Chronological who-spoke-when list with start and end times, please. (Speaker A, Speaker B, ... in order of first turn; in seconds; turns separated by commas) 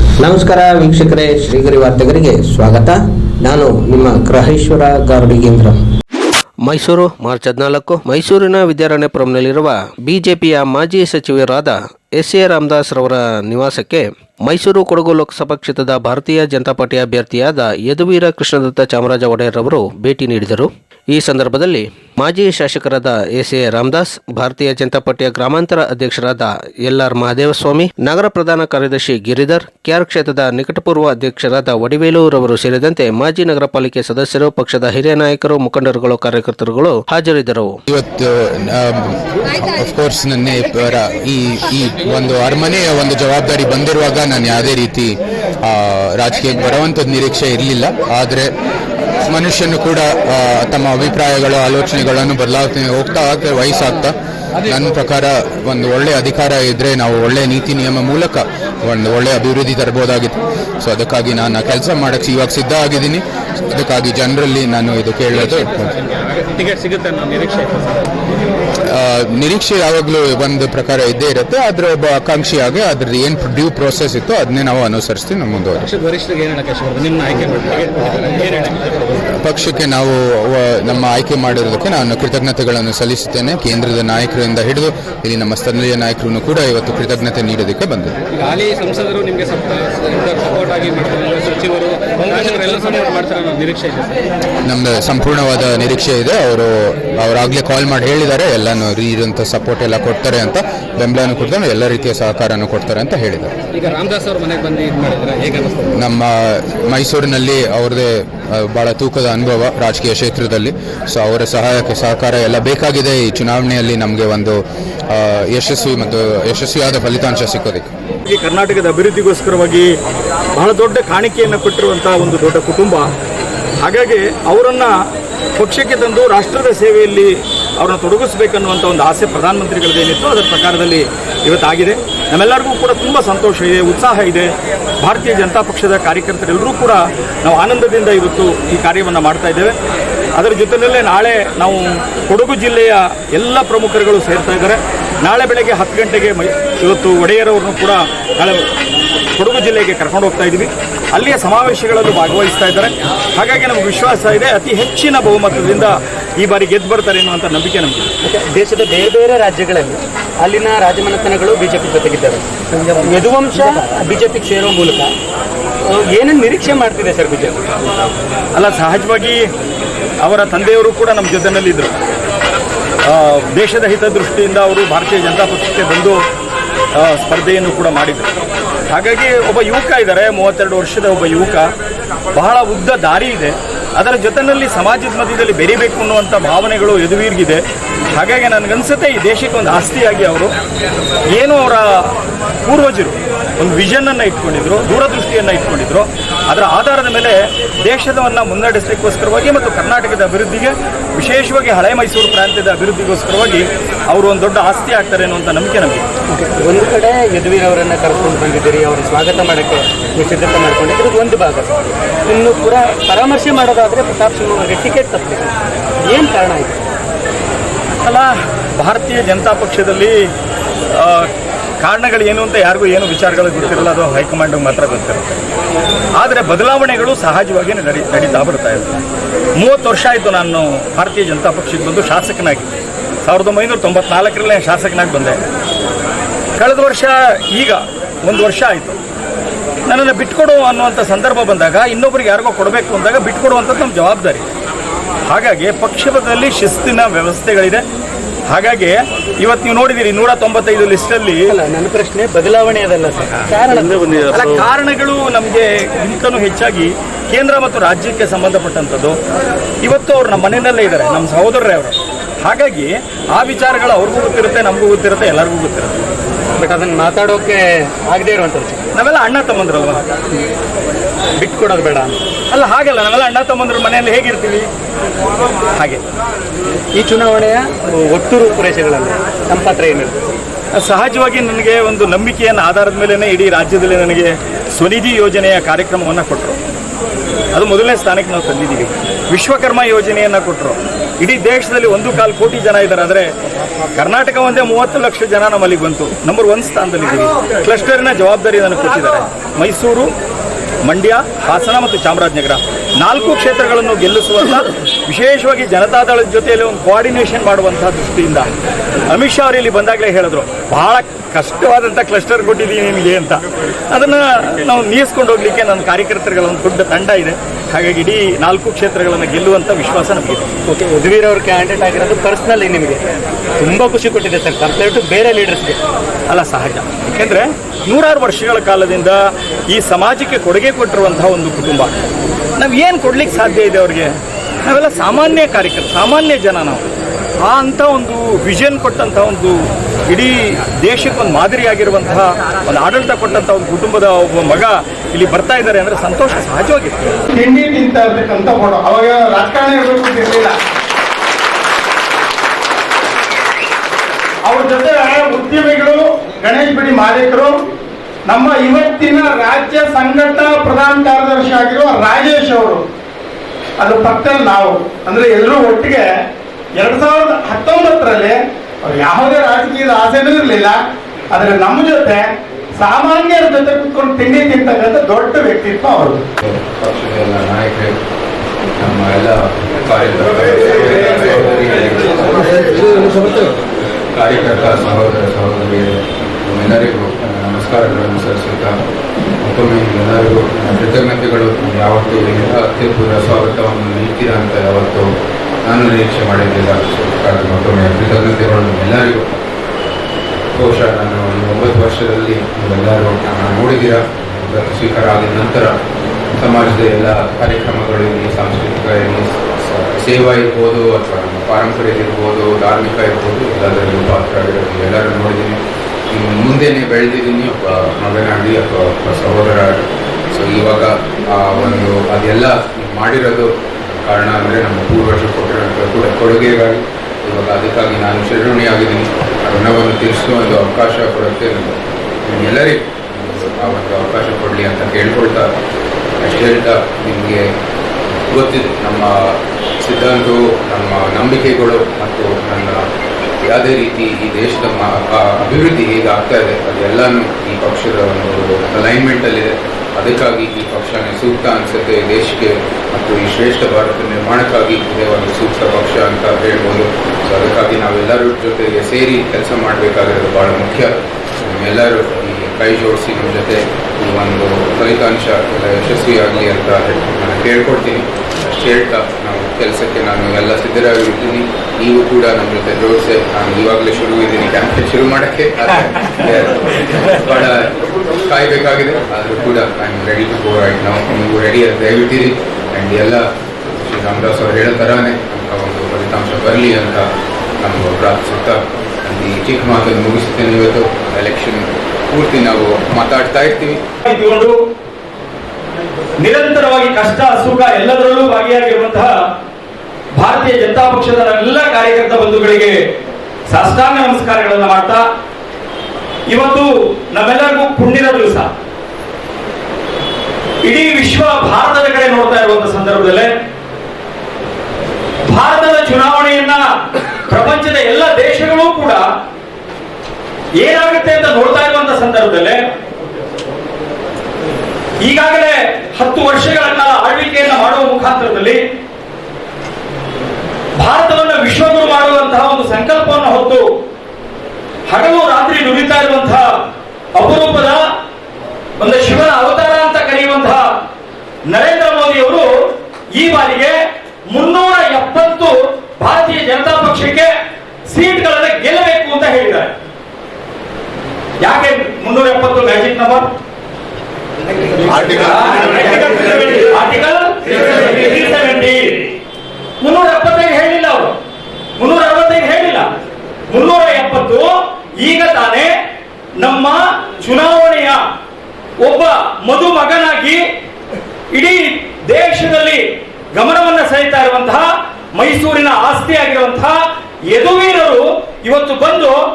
Speaker A: 0.2-5.8, Speaker B: 6.7-37.7, Speaker C: 37.9-48.5, Speaker C: 49.3-65.8, Speaker D: 65.4-68.0, Speaker C: 68.9-75.9, Speaker D: 75.9-79.2, Speaker C: 79.4-88.1, Speaker D: 88.3-94.1, Speaker C: 94.7-103.5, Speaker D: 103.7-105.9, Speaker C: 106.0-114.5, Speaker C: 115.1-117.9, Speaker E: 118.2-119.9, Speaker E: 120.5-123.1, Speaker E: 123.8-124.9, Speaker E: 125.6-139.8, Speaker E: 140.4-148.7, Speaker E: 149.4-158.1, Speaker F: 158.2-165.1, Speaker F: 165.9-167.6, Speaker E: 168.5-169.4, Speaker E: 170.2-171.9, Speaker E: 173.1-176.2, Speaker E: 177.0-178.3, Speaker E: 178.9-181.7, Speaker E: 182.3-187.6, Speaker E: 188.1-190.5, Speaker E: 191.3-192.0, Speaker E: 192.6-206.1, Speaker F: 206.3-215.5, Speaker F: 216.1-216.8, Speaker E: 218.0-220.2, Speaker E: 220.9-221.3, Speaker E: 221.8-225.3, Speaker E: 226.2-229.0, Speaker E: 229.6-232.7, Speaker E: 233.2-235.4, Speaker E: 236.6-239.0, Speaker E: 239.9-244.4, Speaker E: 245.3-247.8, Speaker E: 248.5-251.5, Speaker F: 251.5-254.4, Speaker E: 254.3-259.2, Speaker E: 259.8-266.0, Speaker F: 266.6-268.8, Speaker E: 268.9-270.0, Speaker F: 271.4-272.2, Speaker E: 272.5-274.7, Speaker E: 275.8-276.0, Speaker F: 276.9-280.2, Speaker E: 280.8-286.6, Speaker E: 287.5-293.3, Speaker E: 293.9-300.1, Speaker E: 300.9-308.5, Speaker E: 309.1-320.5, Speaker F: 320.6-323.0, Speaker F: 323.6-325.8, Speaker E: 326.3-329.2, Speaker E: 329.7-331.9, Speaker E: 332.6-334.1, Speaker E: 334.6-336.9, Speaker E: 337.4-339.6, Speaker E: 340.1-347.2, Speaker G: 347.3-350.6, Speaker G: 354.4-357.6, Speaker G: 358.2-362.8, Speaker G: 363.8-366.1, Speaker G: 366.8-376.2, Speaker C: 376.4-377.9, Speaker C: 378.8-383.6, Speaker C: 384.1-388.8, Speaker C: 389.4-395.1, Speaker C: 395.6-399.3, Speaker C: 400.5-405.7, Speaker C: 406.4-415.6, Speaker C: 416.1-419.8, Speaker C: 420.3-435.5, Speaker C: 436.2-437.4, Speaker C: 438.3-439.1, Speaker C: 439.8-442.8, Speaker C: 443.4-460.9, Speaker C: 461.4-477.7, Speaker C: 478.2-483.2, Speaker C: 483.7-487.0, Speaker C: 487.6-493.8, Speaker E: 494.0-494.6, Speaker E: 496.2-499.1, Speaker E: 500.1-502.8, Speaker E: 503.5-505.0, Speaker E: 506.3-508.5, Speaker E: 510.6-513.3, Speaker E: 515.3-516.6, Speaker E: 517.3-519.0, Speaker E: 520.6-522.6, Speaker E: 525.0-528.6, Speaker E: 530.8-533.6, Speaker E: 534.9-536.5, Speaker E: 537.1-537.8, Speaker E: 538.8-540.6, Speaker E: 541.5-542.5, Speaker E: 543.2-543.8, Speaker E: 544.3-547.3, Speaker E: 547.9-549.8, Speaker E: 551.4-553.3, Speaker E: 554.8-559.1, Speaker E: 559.8-561.1, Speaker E: 561.8-562.9, Speaker E: 563.5-565.7, Speaker E: 566.4-568.0, Speaker E: 568.8-570.4, Speaker E: 571.3-572.8, Speaker E: 573.3-576.8, Speaker E: 577.3-579.2